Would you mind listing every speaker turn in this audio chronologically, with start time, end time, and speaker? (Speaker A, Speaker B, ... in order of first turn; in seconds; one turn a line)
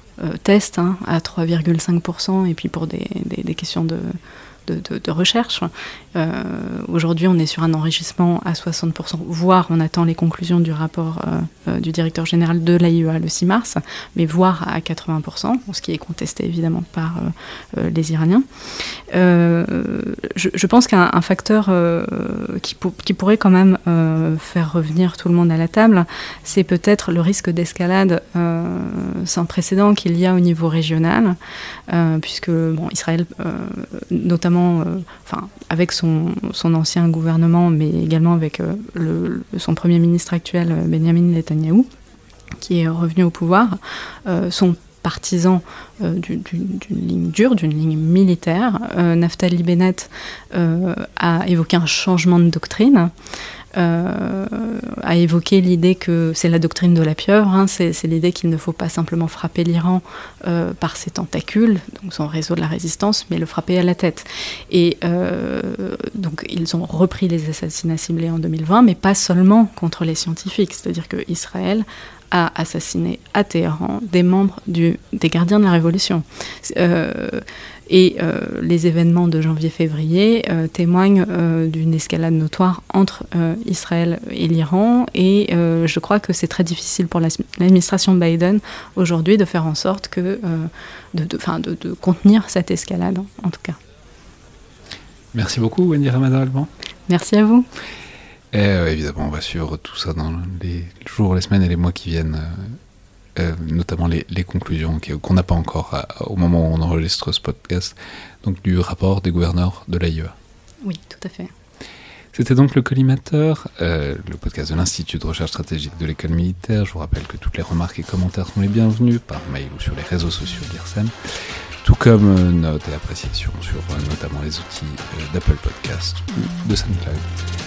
Speaker A: 0.2-18.4
Speaker A: 19.1-31.4
Speaker A: 31.9-41.9
Speaker A: 42.6-53.1
Speaker A: 53.7-93.8
Speaker B: 95.3-96.7
Speaker A: 97.1-97.7
Speaker B: 98.5-102.8
Speaker B: 103.3-110.3
Speaker A: 110.8-111.5
Speaker B: 112.3-121.1
Speaker B: 121.8-127.3